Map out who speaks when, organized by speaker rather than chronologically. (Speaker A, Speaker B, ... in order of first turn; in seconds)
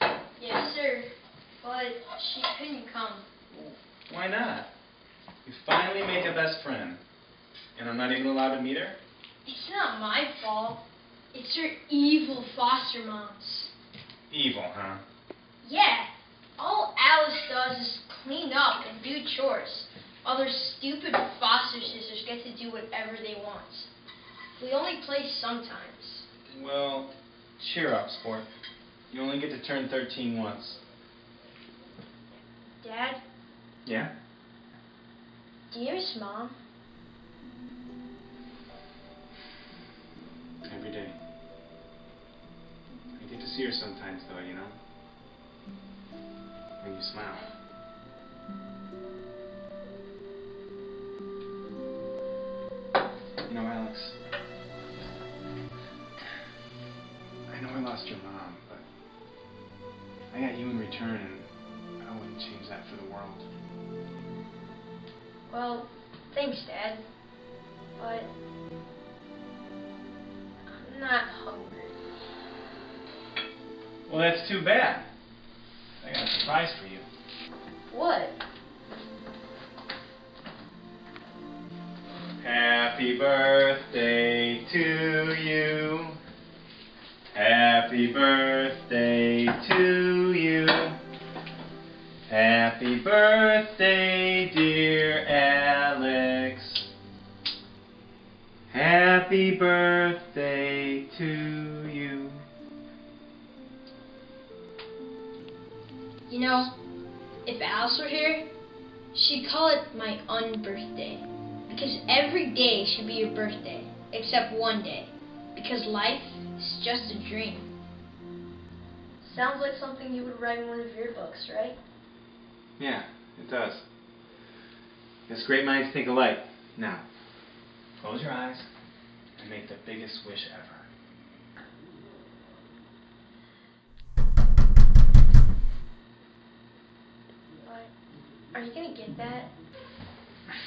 Speaker A: 0.4-3.2, 9.4-13.7, 15.6-23.9, 24.6-26.2, 32.8-33.2, 35.7-36.5, 65.5-67.0, 68.0-68.3, 70.7-72.0, 77.9-78.3, 106.3-106.7, 107.4-108.4, 109.1-117.7, 119.2-121.8, 137.6-137.9, 138.5-139.5
Speaker B: 3.5-4.7, 5.4-7.0, 7.7-8.9, 14.3-15.0, 26.5-28.4, 29.1-30.8, 33.8-34.1, 40.6-41.1, 43.1-44.8, 46.8-47.5, 53.5-54.1, 57.5-58.8, 60.3-61.5, 62.0-63.4, 74.1-75.1, 76.0-77.0, 82.4-86.2, 87.3-91.0, 92.3-96.8, 98.7-102.4, 122.8-123.8, 125.3-127.0, 128.0-128.7, 129.4-130.9